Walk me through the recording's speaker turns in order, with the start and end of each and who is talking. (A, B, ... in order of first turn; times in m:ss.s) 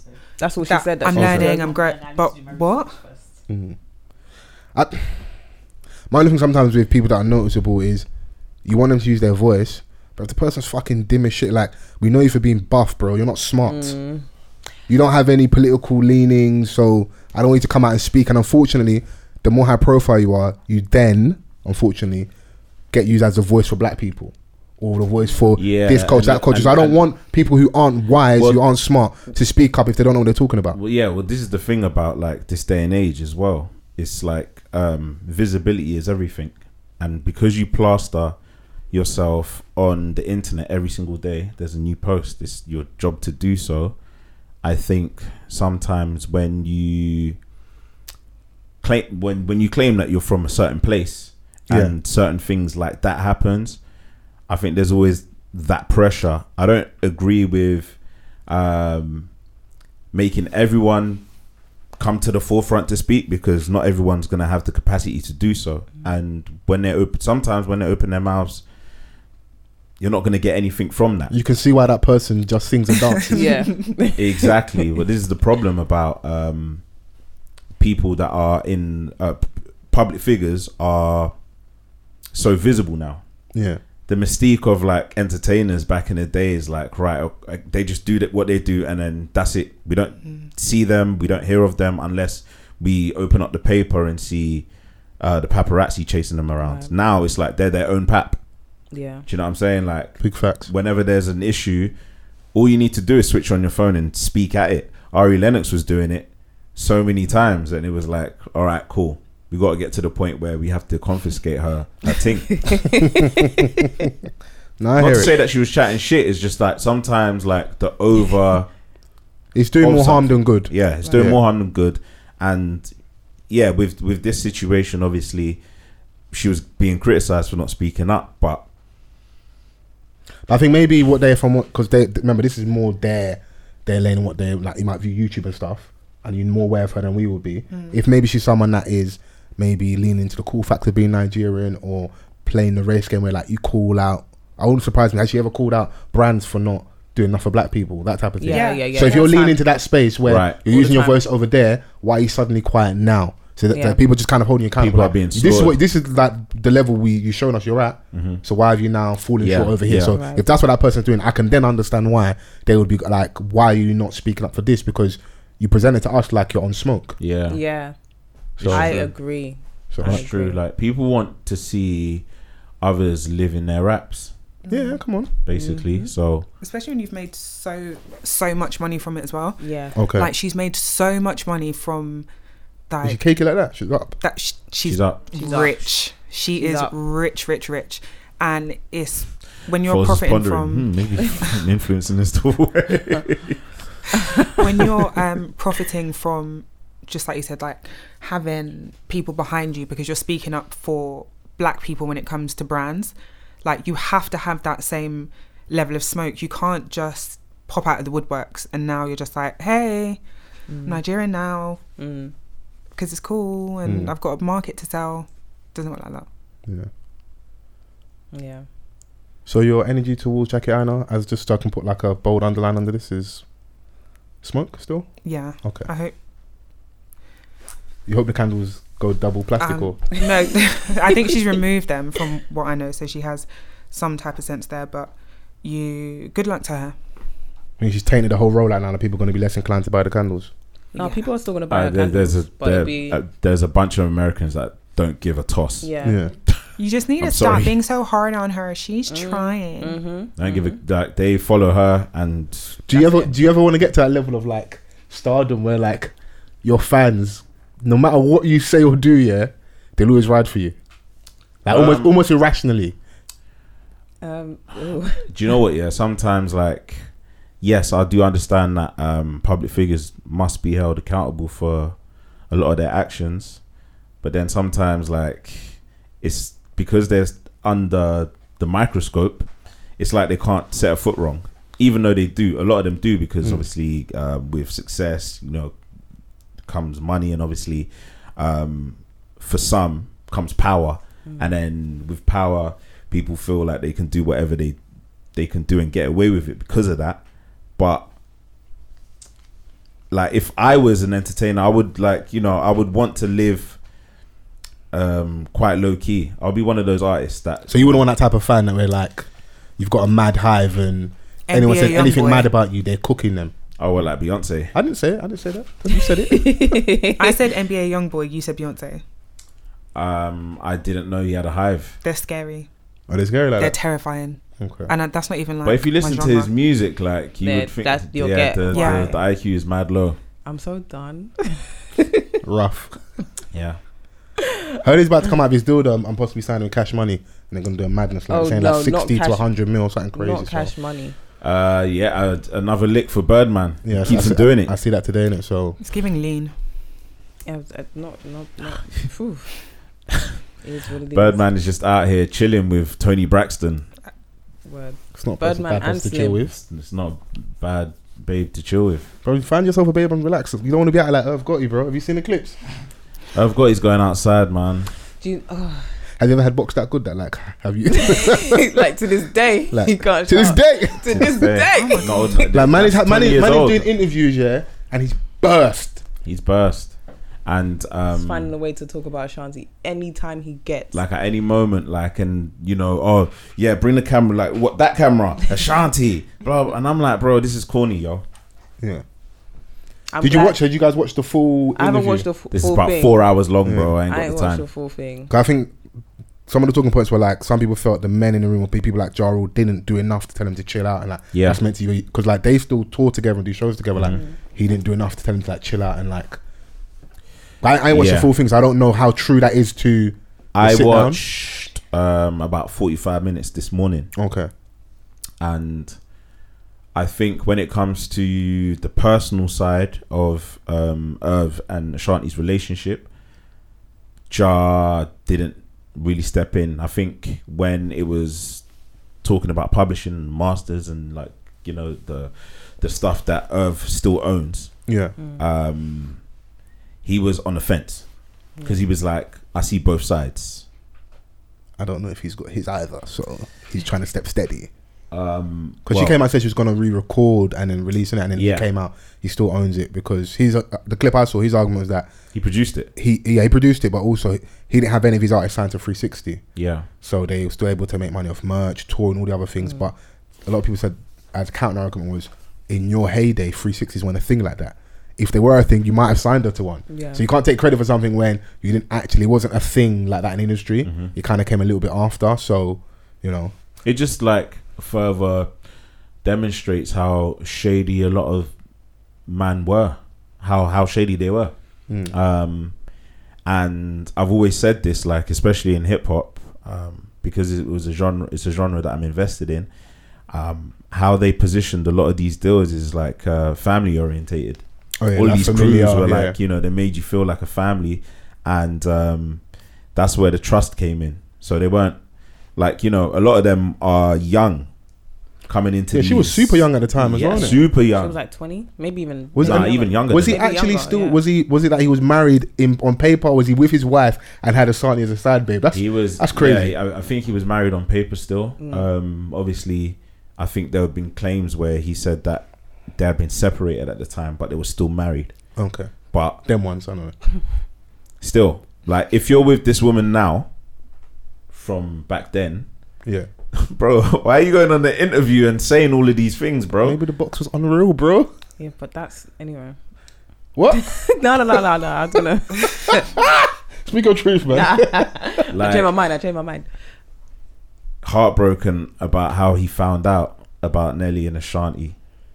0:00.4-0:01.8 A
0:00.7-0:03.0 B
0:01.1-0:01.5 C
0:03.5-0:03.8 C
0:04.7-0:05.3 C
0:06.1-0:08.1 C
0:08.6-0:14.0 C
0:13.7-0:14.2 A
0:14.9-0:22.3 C
0:22.9-0:30.8 C
0:25.6-0:27.0 D
0:30.7-0:38.4 D
0:38.9-0:44.0 D
0:44.6-0:47.4 D
0:48.8-0:53.8 D
0:54.5-0:59.3 D
1:00.1-1:01.2 D
1:02.0-1:08.6 D
1:10.0-1:11.3 D
1:11.3-1:13.7 C
1:13.3-1:14.5 A
1:14.2-1:16.8 D
1:17.8-1:21.3 D
1:22.3-1:23.2 D
1:23.5-1:23.8 C
1:24.1-1:34.7 D
1:35.2-1:38.4 D
1:36.6-1:36.9 A
1:38.9-1:39.3 A
1:39.3-1:41.9 D
1:40.2-1:40.7 C
1:42.5-1:53.0 D
1:52.6-1:54.0 A
1:53.0-1:53.7 C
1:54.8-1:55.3 C
1:55.0-1:58.7 D
1:59.5-2:01.4 C
1:59.8-2:02.9 D
2:03.5-2:05.6 D
2:06.3-2:08.6 D
2:10.5-2:47.2 C
2:17.7-2:18.0 B
2:28.4-2:29.6 A
2:28.5-2:29.3 B
2:30.2-2:30.6 D
2:30.7-2:31.2 A
2:33.7-2:34.0 A
2:34.8-2:35.8 D
2:38.1-2:38.4 D
2:39.4-2:40.2 D
2:40.1-2:40.5 A
2:47.2-2:47.6 D
2:47.5-2:48.0 A
2:48.6-2:49.1 D
2:48.6-2:49.1 C
2:48.7-2:50.6 A
2:49.9-2:50.2 C
2:50.0-2:52.2 D
2:52.8-2:54.3 D
2:54.6-2:55.0 B
2:54.7-2:55.3 C
2:55.4-2:56.5 D
2:55.5-2:56.1 A
2:56.6-3:02.3 B
2:59.6-3:00.0 A
3:00.0-3:00.3 C
3:02.9-3:03.2 B
3:03.0-3:04.2 C
3:04.2-3:10.9 B
3:04.8-3:05.2 D
3:05.3-3:05.9 A
3:06.6-3:06.9 A
3:09.8-3:13.6 D
3:14.4-3:14.8 D
3:14.6-3:30.2 B
3:30.7-3:31.0 A
3:30.8-3:31.8 B
3:32.0-3:32.3 A
3:33.0-3:36.3 B
3:33.8-3:34.1 C
3:38.3-3:38.7 A
3:39.5-3:43.4 C
3:44.4-3:45.9 C
3:45.2-3:46.1 B
3:48.1-3:50.1 C
3:49.6-3:57.0 B
3:57.8-4:00.5 C
4:00.9-4:03.2 A
4:01.0-4:01.2 B
4:01.7-4:05.9 D
4:05.8-4:06.2 A
4:06.0-4:06.3 C
4:06.8-4:10.0 B
4:07.2-4:07.8 D
4:09.1-4:10.8 A
4:10.4-4:12.8 D
4:12.9-4:16.1 C
4:12.9-4:13.3 A
4:16.6-4:20.8 C
4:21.6-4:23.0 C
4:21.7-4:22.1 D
4:24.2-4:25.3 A
4:25.3-4:27.0 D
4:27.6-4:32.0 D
4:32.5-4:33.6 D
4:34.2-4:45.8 D
4:46.6-4:54.8 D
4:55.3-4:57.2 D
4:57.8-4:58.1 D
5:00.1-5:03.8 D
5:04.9-5:08.0 D
5:07.7-5:09.3 C
5:09.8-5:13.5 C
5:11.5-5:12.5 B
5:13.8-5:14.7 D
5:14.7-5:16.8 C
5:16.3-5:17.4 A
5:17.2-5:19.0 B
5:20.0-5:22.0 D
5:22.0-5:22.7 B
5:23.1-5:23.8 C
5:23.6-5:26.5 B
5:24.6-5:24.9 C
5:25.6-5:30.2 D
5:27.4-5:29.2 A
5:28.7-5:29.1 B
5:30.4-5:32.2 A
5:32.4-5:33.0 C
5:33.5-5:33.8 D
5:34.8-5:40.7 C
5:38.3-5:39.5 A
5:40.1-5:41.2 A
5:41.4-5:44.7 D
5:43.8-5:45.8 C
5:45.8-5:46.5 B
5:47.5-5:49.5 A
5:50.6-5:51.4 A
5:51.1-5:53.9 D
5:54.7-5:56.4 A
5:55.1-5:56.6 C
5:56.5-5:59.1 D
5:59.2-6:02.6 C
6:03.3-6:04.9 D
6:05.2-6:05.9 A
6:06.2-6:08.8 C
6:07.9-6:12.3 A
6:09.7-6:11.5 C
6:11.1-6:13.9 D
6:11.7-6:12.4 B
6:12.5-6:16.0 C
6:16.2-6:18.5 D
6:18.1-6:21.0 A
6:20.9-6:28.2 D
6:30.1-6:30.6 A
6:30.2-6:32.3 C
6:31.8-6:33.2 A
6:32.5-6:34.6 D
6:33.6-6:33.9 C
6:34.1-6:35.3 A
6:35.3-6:35.8 C
6:36.5-6:46.4 C
6:41.3-6:41.6 D
6:44.1-6:44.4 A
6:47.6-6:51.2 C
6:47.9-6:48.3 D
6:50.5-6:54.1 D
6:54.2-6:54.5 C
6:55.4-6:56.0 D
6:57.0-7:03.1 D
7:04.3-7:08.6 D
7:09.2-7:14.8 D
7:14.9-7:15.1 C
7:15.4-7:16.2 D
7:17.0-7:18.1 D
7:18.6-7:18.8 A
7:18.6-7:20.6 D
7:21.8-7:24.7 C
7:25.1-7:26.2 D
7:25.9-7:32.1 C
7:28.4-7:28.7 D
7:32.3-7:32.9 D
7:33.0-7:36.4 C
7:36.6-7:36.9 D
7:37.0-7:40.0 C
7:40.5-7:53.5 C
7:46.9-7:47.2 A
7:50.8-7:51.1 D
7:53.8-7:55.5 D
7:56.2-7:58.5 D
7:59.3-8:01.5 D
8:01.9-8:02.1 C
8:02.0-8:02.7 D
8:03.4-8:09.7 D
8:10.3-8:14.6 D
8:15.0-8:16.4 C
8:15.1-8:19.4 D
8:19.9-8:22.0 D
8:22.6-8:24.7 D
8:25.5-8:28.2 D
8:25.9-8:27.6 C
8:27.4-8:31.2 A
8:29.4-8:36.8 C
8:29.4-8:30.4 D
8:35.7-8:45.3 D
8:38.6-8:38.9 A
8:45.6-8:47.2 C
8:46.1-8:46.4 D
8:48.2-8:50.5 D
8:51.5-8:52.7 D
8:53.6-8:57.0 D
8:56.8-8:58.3 C
8:58.6-8:59.8 A
9:00.6-9:00.9 C
9:00.7-9:03.1 A
9:02.6-9:05.1 C
9:04.5-9:06.7 A
9:05.5-9:05.9 D
9:08.0-9:12.0 D